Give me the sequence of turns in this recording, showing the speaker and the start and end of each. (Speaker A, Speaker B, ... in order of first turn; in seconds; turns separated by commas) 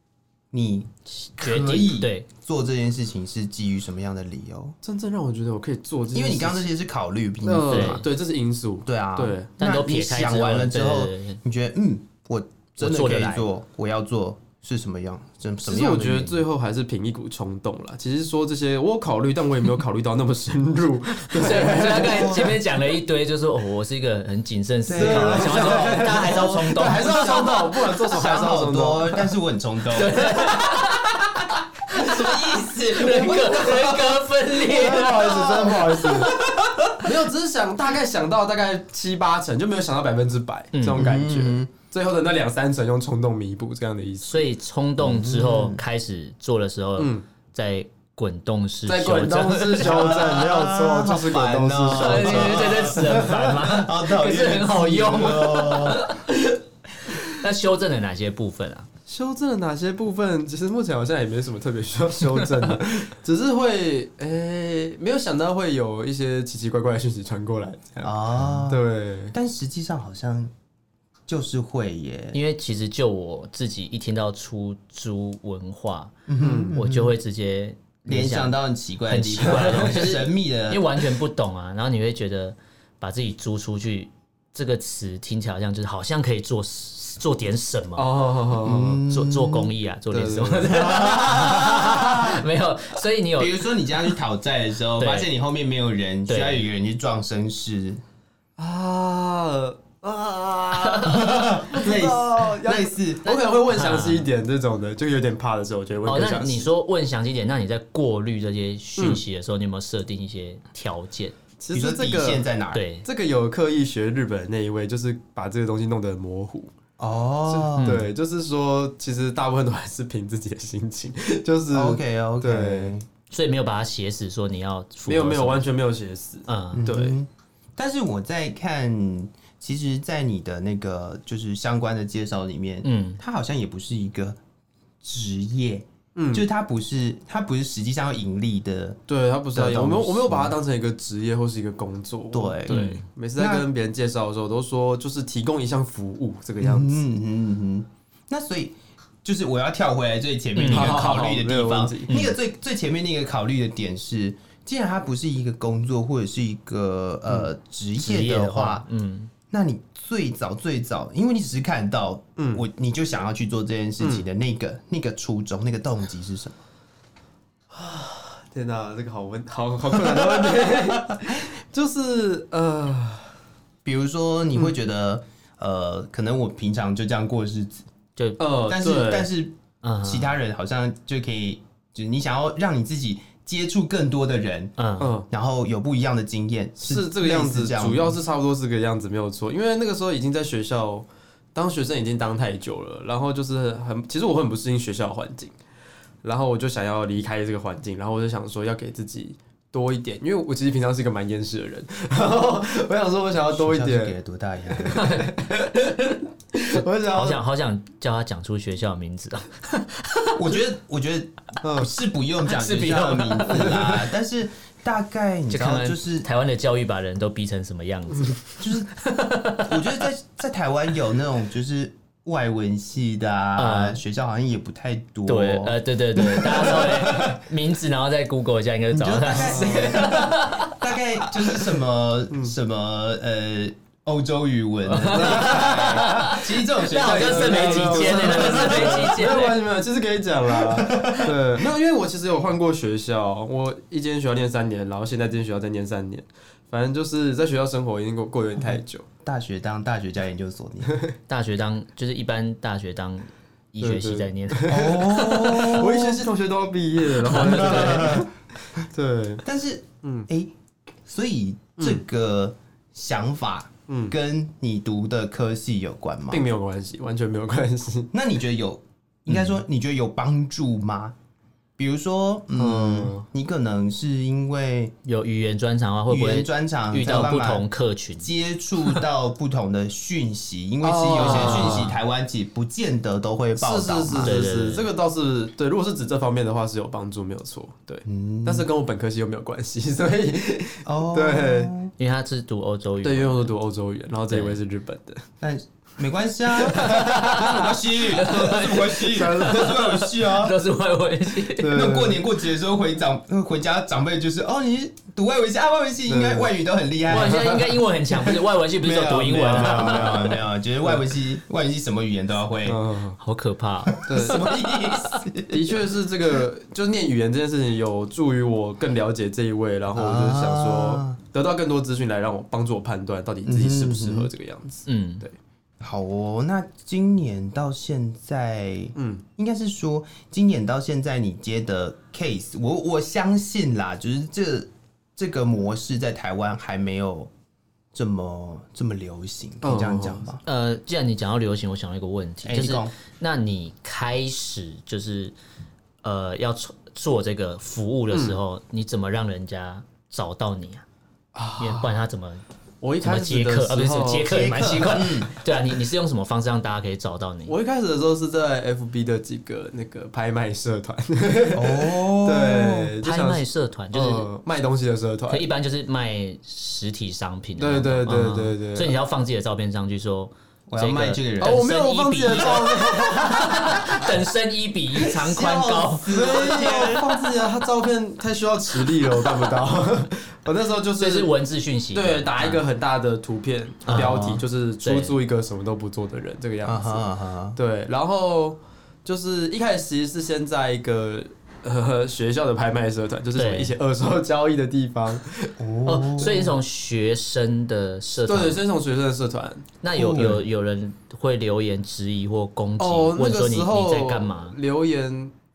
Speaker A: 0.5-4.8, Speaker B: 1.2-2.3, Speaker C: 4.8-6.7, Speaker A: 6.1-8.1, Speaker C: 7.4-9.5, Speaker B: 7.7-8.1, Speaker A: 8.8-16.4, Speaker B: 9.6-11.4, Speaker B: 12.8-13.5, Speaker C: 15.6-22.6, Speaker B: 21.3-27.6, Speaker A: 21.7-22.6, Speaker A: 24.9-30.7, Speaker C: 24.9-29.3, Speaker B: 29.9-35.7, Speaker A: 31.9-34.2, Speaker C: 34.6-36.3, Speaker A: 35.1-36.9, Speaker C: 37.0-44.5, Speaker B: 40.7-41.1, Speaker A: 41.0-41.7, Speaker B: 44.2-50.3, Speaker A: 45.0-45.8, Speaker C: 47.0-47.2, Speaker C: 48.9-53.5, Speaker A: 49.8-56.1, Speaker B: 51.9-56.6, Speaker B: 57.1-58.9, Speaker C: 59.1-69.3, Speaker B: 62.3-62.6, Speaker A: 68.0-70.5, Speaker A: 71.3-72.4, Speaker B: 72.3-88.1, Speaker A: 76.3-77.2, Speaker C: 76.4-76.8, Speaker A: 78.1-81.1, Speaker C: 88.0-89.0, Speaker A: 88.6-89.7, Speaker B: 89.1-93.8, Speaker C: 90.1-91.4, Speaker A: 90.7-92.4, Speaker A: 93.4-98.0, Speaker B: 95.0-95.3, Speaker B: 96.3-96.7, Speaker C: 98.6-106.7, Speaker B: 100.8-101.1, Speaker A: 101.0-103.4, Speaker B: 103.7-104.3, Speaker B: 106.0-111.4, Speaker C: 109.0-109.2, Speaker C: 111.6-112.5, Speaker A: 111.7-112.8, Speaker B: 112.7-113.1, Speaker C: 113.0-116.7, Speaker A: 117.0-118.0, Speaker C: 117.5-122.9, Speaker B: 117.8-118.1, Speaker A: 121.7-123.1, Speaker B: 123.3-125.7, Speaker C: 125.1-127.2, Speaker B: 126.5-126.9, Speaker A: 126.7-134.4, Speaker B: 132.8-133.2, Speaker A: 135.0-139.0, Speaker C: 136.2-136.5, Speaker C: 139.1-147.0, Speaker A: 139.5-140.6, Speaker A: 142.3-143.7, Speaker B: 142.7-143.0, Speaker A: 146.6-158.9, Speaker B: 150.6-151.1, Speaker C: 150.7-152.1, Speaker B: 152.1-152.4, Speaker B: 158.0-159.3, Speaker A: 159.5-166.6, Speaker C: 162.4-162.6, Speaker C: 164.0-164.3, Speaker C: 167.7-173.3, Speaker A: 170.0-170.8, Speaker A: 173.8-177.9, Speaker C: 178.4-179.3, Speaker A: 178.7-184.7, Speaker B: 179.8-180.3, Speaker B: 184.8-185.1, Speaker C: 185.0-185.3, Speaker A: 185.3-188.2, Speaker C: 186.8-195.5, Speaker C: 196.2-204.2, Speaker A: 203.5-205.3, Speaker C: 204.8-207.4, Speaker B: 207.1-210.4, Speaker A: 210.4-216.3, Speaker C: 211.6-211.9, Speaker B: 212.4-214.1, Speaker B: 215.5-219.9, Speaker A: 218.6-219.0, Speaker A: 219.6-227.4, Speaker B: 223.6-224.0, Speaker B: 225.3-230.8, Speaker A: 228.9-239.2, Speaker C: 229.3-230.3, Speaker B: 234.9-239.6, Speaker C: 235.1-249.1, Speaker A: 240.6-241.3, Speaker A: 248.6-250.9, Speaker C: 250.9-251.1, Speaker B: 251.3-255.0, Speaker C: 253.8-259.4, Speaker A: 254.7-256.3, Speaker B: 257.2-258.2, Speaker A: 257.4-258.3, Speaker A: 259.4-260.5, Speaker C: 260.0-260.3, Speaker A: 261.1-266.4, Speaker C: 261.8-262.0, Speaker C: 263.9-264.1, Speaker C: 266.3-268.1, Speaker A: 268.1-271.1, Speaker A: 271.8-274.9, Speaker C: 272.6-273.3, Speaker B: 275.1-278.3, Speaker A: 276.1-277.7, Speaker A: 278.2-284.4, Speaker C: 280.8-282.0, Speaker B: 281.2-282.0, Speaker C: 283.6-291.7, Speaker B: 284.2-284.9, Speaker A: 288.1-288.7, Speaker A: 290.9-291.9, Speaker B: 292.0-293.5, Speaker C: 293.0-295.2, Speaker B: 294.3-294.6, Speaker A: 295.4-300.6, Speaker C: 296.6-297.7, Speaker B: 296.8-301.9, Speaker C: 299.1-300.1, Speaker C: 301.5-302.2, Speaker A: 301.7-307.8, Speaker C: 306.1-306.5, Speaker B: 307.1-310.4, Speaker C: 307.1-307.6, Speaker A: 308.8-312.8, Speaker C: 309.3-311.0, Speaker C: 312.7-313.2, Speaker B: 313.2-315.2, Speaker A: 314.0-315.8, Speaker C: 314.1-314.5, Speaker C: 315.5-325.4, Speaker A: 319.9-321.2, Speaker A: 323.5-324.3, Speaker B: 324.9-325.2, Speaker A: 325.8-337.3, Speaker C: 329.0-329.2, Speaker A: 337.9-340.4, Speaker C: 339.6-340.3, Speaker B: 340.5-345.4, Speaker A: 342.4-342.9, Speaker B: 346.0-350.9, Speaker C: 348.1-348.4, Speaker C: 351.4-351.9, Speaker B: 351.6-352.4, Speaker C: 352.8-354.7, Speaker B: 353.0-357.6, Speaker A: 354.3-355.4, Speaker C: 357.5-365.5, Speaker A: 361.6-362.9, Speaker B: 363.0-364.3, Speaker B: 365.3-376.7, Speaker C: 367.6-368.9, Speaker A: 370.7-371.8, Speaker C: 371.4-374.1, Speaker A: 372.4-372.9, Speaker A: 375.0-377.4, Speaker C: 376.1-381.3, Speaker B: 381.0-382.6, Speaker C: 381.9-395.6, Speaker B: 383.9-385.1, Speaker A: 383.9-384.4, Speaker A: 386.6-387.6, Speaker B: 393.4-393.8, Speaker A: 395.6-396.6, Speaker B: 395.9-398.6, Speaker C: 398.2-399.7, Speaker B: 399.8-404.6, Speaker A: 399.9-400.4, Speaker C: 402.8-405.3